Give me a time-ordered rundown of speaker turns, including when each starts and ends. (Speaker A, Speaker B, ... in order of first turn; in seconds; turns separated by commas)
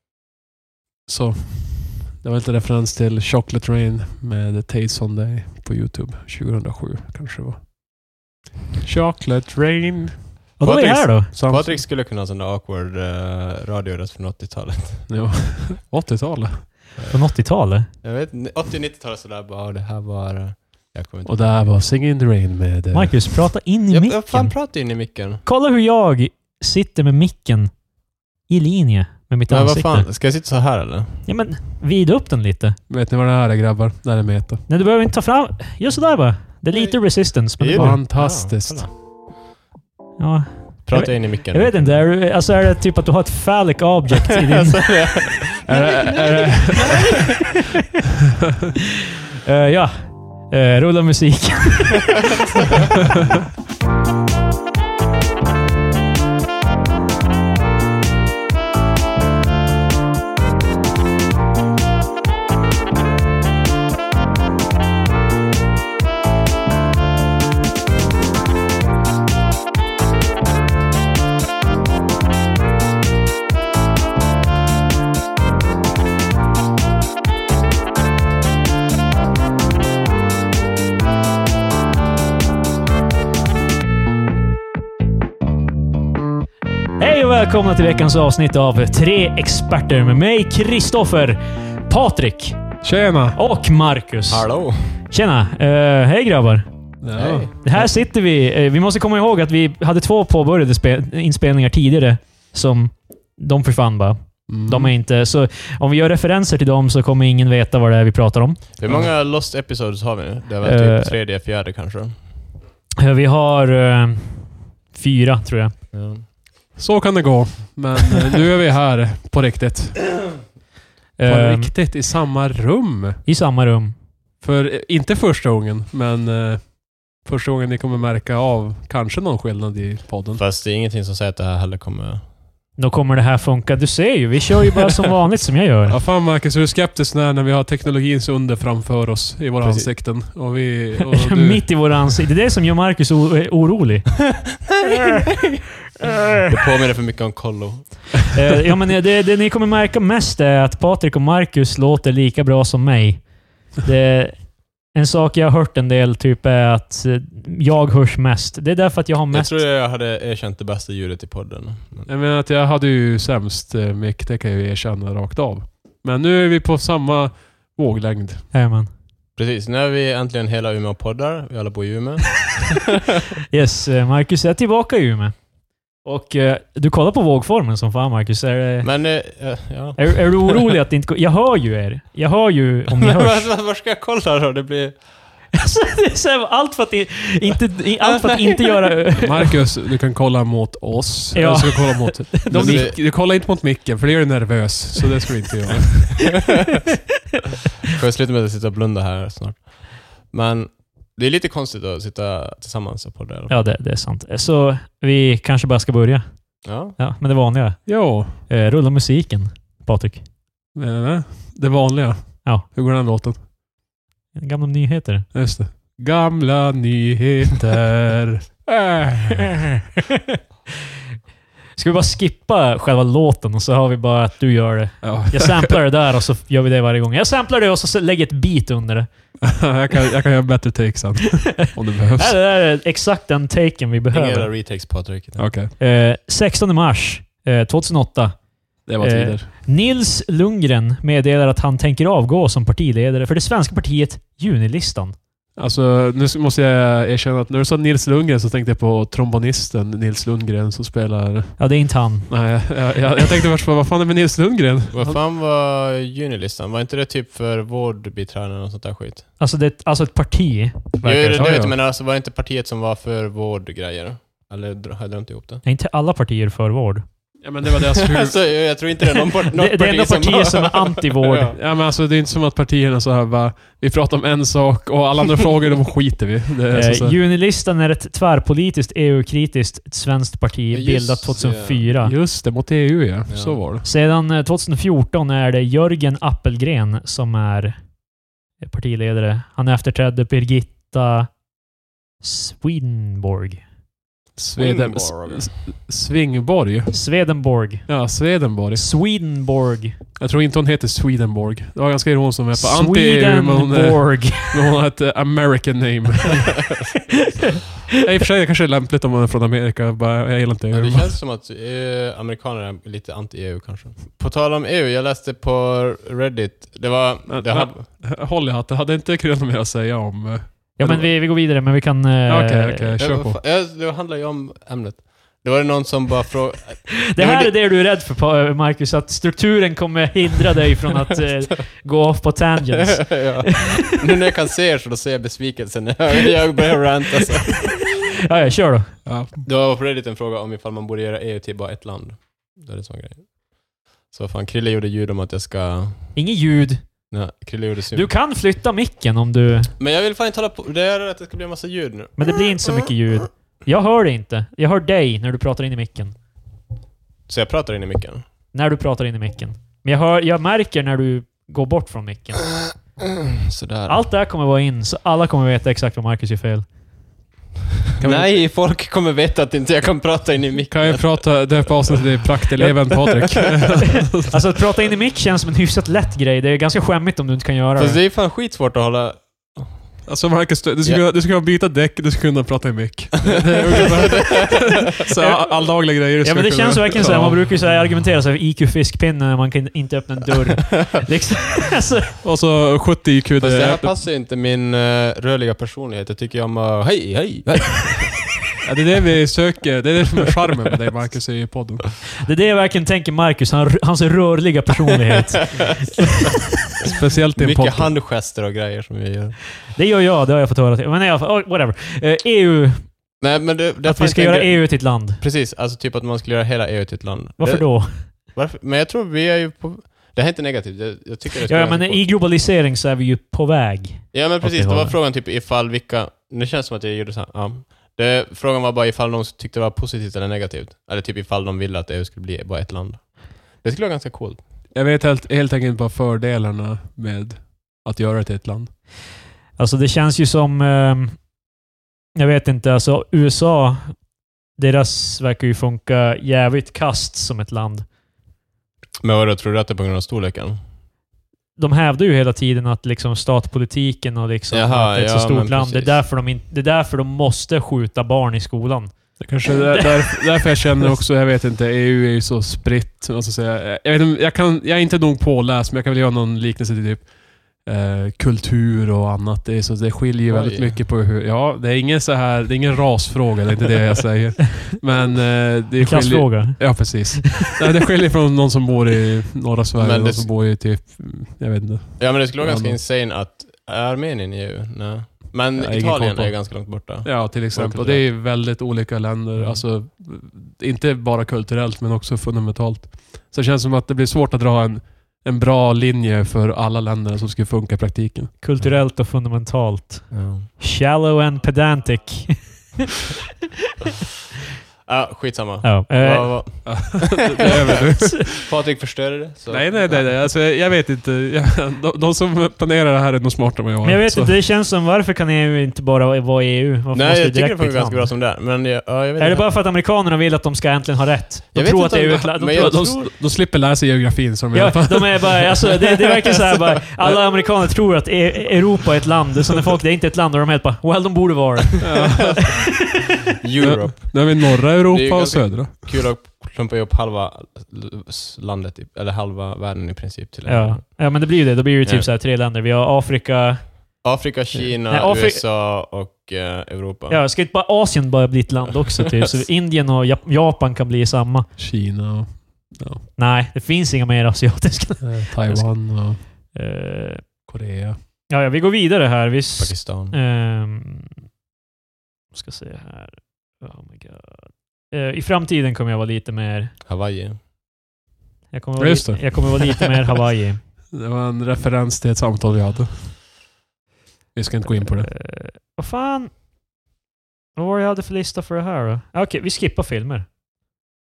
Speaker A: 1.1-7.7, Speaker A: 8.8-10.6, Speaker B: 10.6-11.3, Speaker C: 10.6-15.1, Speaker A: 11.3-11.8, Speaker A: 15.1-16.7, Speaker B: 17.1-17.9, Speaker C: 18.0-21.9, Speaker A: 21.3-23.5, Speaker B: 22.9-24.6, Speaker C: 23.9-25.4, Speaker B: 25.4-27.7, Speaker B: 28.5-30.1, Speaker C: 29.5-31.3, Speaker B: 31.3-32.8, Speaker A: 32.9-34.6, Speaker B: 34.7-38.0, Speaker C: 36.7-37.0, Speaker C: 37.6-38.9, Speaker A: 37.7-38.9, Speaker B: 40.2-45.3, Speaker C: 40.9-42.1, Speaker C: 44.3-47.2, Speaker A: 45.7-47.2, Speaker B: 49.5-52.2, Speaker B: 87.0-92.6, Speaker A: 92.8-93.4, Speaker B: 93.4-94.5, Speaker C: 94.3-94.8, Speaker B: 95.1-96.7, Speaker A: 97.0-97.5, Speaker C: 97.1-97.8, Speaker B: 97.6-108.6, Speaker A: 104.5-105.0, Speaker C: 108.8-112.1, Speaker B: 110.6-111.1, Speaker B: 113.0-115.7, Speaker C: 115.9-116.2, Speaker A: 116.8-120.4, Speaker B: 121.2-121.7, Speaker A: 121.3-123.2, Speaker B: 123.3-124.0, Speaker A: 124.4-130.4, Speaker C: 130.4-132.2, Speaker B: 132.8-136.0, Speaker A: 135.9-141.7, Speaker C: 139.6-139.9, Speaker B: 141.1-144.3, Speaker C: 144.6-145.6, Speaker B: 146.0-146.5, Speaker C: 146.5-148.3, Speaker B: 148.3-159.6, Speaker C: 159.3-162.1, Speaker A: 162.1-168.5, Speaker B: 168.5-168.9, Speaker C: 169.4-172.9, Speaker B: 173.5-175.3, Speaker B: 176.0-178.9, Speaker C: 178.8-180.8, Speaker B: 180.0-183.5, Speaker C: 182.9-185.0, Speaker B: 185.5-189.6, Speaker C: 188.0-188.9, Speaker A: 189.2-196.2, Speaker B: 191.3-192.9, Speaker C: 192.5-193.0, Speaker C: 197.9-203.7, Speaker B: 203.5-210.2, Speaker C: 206.6-207.0, Speaker A: 207.9-208.4, Speaker A: 210.7-213.4, Speaker B: 214.4-215.3, Speaker A: 215.3-219.7, Speaker B: 220.1-220.4, Speaker B: 221.8-229.1, Speaker A: 225.0-225.8, Speaker A: 229.4-232.4, Speaker B: 232.2-234.5, Speaker C: 234.1-235.5, Speaker A: 235.4-235.7, Speaker B: 235.8-238.4, Speaker A: 238.9-239.5, Speaker B: 239.0-245.2, Speaker A: 245.6-251.7, Speaker B: 251.6-252.3, Speaker A: 252.3-255.2, Speaker C: 254.9-259.2, Speaker B: 259.4-261.6, Speaker C: 261.0-265.6, Speaker A: 261.3-261.7, Speaker B: 265.6-267.0, Speaker A: 267.4-268.4, Speaker C: 267.9-271.6, Speaker B: 269.2-271.5, Speaker A: 271.5-277.2, Speaker B: 276.7-282.1, Speaker C: 280.7-281.9, Speaker A: 282.0-283.9, Speaker C: 283.3-283.6, Speaker B: 283.8-287.9, Speaker B: 288.6-291.4, Speaker B: 292.2-293.6, Speaker A: 294.4-297.0, Speaker C: 294.6-295.5, Speaker B: 296.9-298.0, Speaker A: 297.9-298.8, Speaker B: 298.8-300.0, Speaker A: 300.2-306.6, Speaker B: 302.5-304.7, Speaker C: 306.4-306.8, Speaker B: 307.1-307.6, Speaker A: 307.9-311.1, Speaker C: 310.7-317.9, Speaker A: 317.3-321.1, Speaker B: 320.8-322.9, Speaker A: 322.3-323.4, Speaker C: 323.0-327.5, Speaker B: 327.1-333.8, Speaker C: 332.7-337.8, Speaker B: 337.6-339.0, Speaker A: 339.1-339.3, Speaker C: 339.4-343.3, Speaker C: 344.1-346.1, Speaker B: 346.2-346.9, Speaker C: 347.1-348.1, Speaker B: 347.9-349.7, Speaker C: 349.8-352.9, Speaker B: 352.2-356.1, Speaker C: 357.3-358.2, Speaker B: 358.5-362.6, Speaker C: 363.0-364.0, Speaker B: 363.9-366.6, Speaker A: 368.0-368.4, Speaker C: 368.0-371.7, Speaker A: 370.7-374.3, Speaker C: 372.9-373.5, Speaker B: 374.1-378.0, Speaker C: 377.8-379.8, Speaker A: 380.1-387.4, Speaker C: 383.2-384.9, Speaker B: 385.2-392.2, Speaker A: 392.2-393.9, Speaker C: 393.4-398.3, Speaker A: 398.6-401.9, Speaker B: 402.2-406.0, Speaker C: 405.3-405.8, Speaker A: 406.8-407.9, Speaker C: 407.4-409.4, Speaker B: 409.7-412.9, Speaker C: 413.2-422.0, Speaker B: 413.9-415.2, Speaker B: 417.4-418.1, Speaker B: 421.5-425.0, Speaker C: 424.1-434.4, Speaker A: 434.7-438.7, Speaker B: 439.6-441.2, Speaker B: 442.2-444.0, Speaker B: 444.6-447.9, Speaker C: 449.0-450.6, Speaker B: 451.6-460.9, Speaker C: 454.5-456.0, Speaker A: 459.2-482.8, Speaker C: 470.3-470.8, Speaker B: 475.8-477.3, Speaker C: 479.8-480.3, Speaker C: 482.0-488.1, Speaker A: 485.6-498.4, Speaker C: 489.4-489.6, Speaker B: 498.4-502.6, Speaker C: 500.1-500.5, Speaker C: 504.9-510.2, Speaker B: 505.6-506.8, Speaker A: 506.6-508.4, Speaker A: 509.5-514.4, Speaker B: 513.8-518.1, Speaker C: 516.9-519.5, Speaker B: 519.2-523.1, Speaker C: 521.5-523.0, Speaker A: 522.4-525.5, Speaker B: 524.5-532.7, Speaker C: 525.7-527.4, Speaker A: 531.8-532.5, Speaker C: 533.4-541.1, Speaker A: 533.6-535.9, Speaker B: 540.5-543.6, Speaker C: 541.8-542.1, Speaker C: 544.0-547.2, Speaker B: 544.9-545.4, Speaker B: 547.1-551.5, Speaker A: 551.6-553.0, Speaker B: 553.2-557.3, Speaker A: 555.0-556.2, Speaker A: 557.5-558.0, Speaker B: 558.3-561.1, Speaker C: 559.6-560.1, Speaker B: 562.3-566.7, Speaker C: 566.9-567.4, Speaker B: 568.5-570.6, Speaker A: 568.8-569.4, Speaker A: 570.9-573.2, Speaker A: 574.4-575.1, Speaker B: 574.8-576.3, Speaker B: 577.6-580.3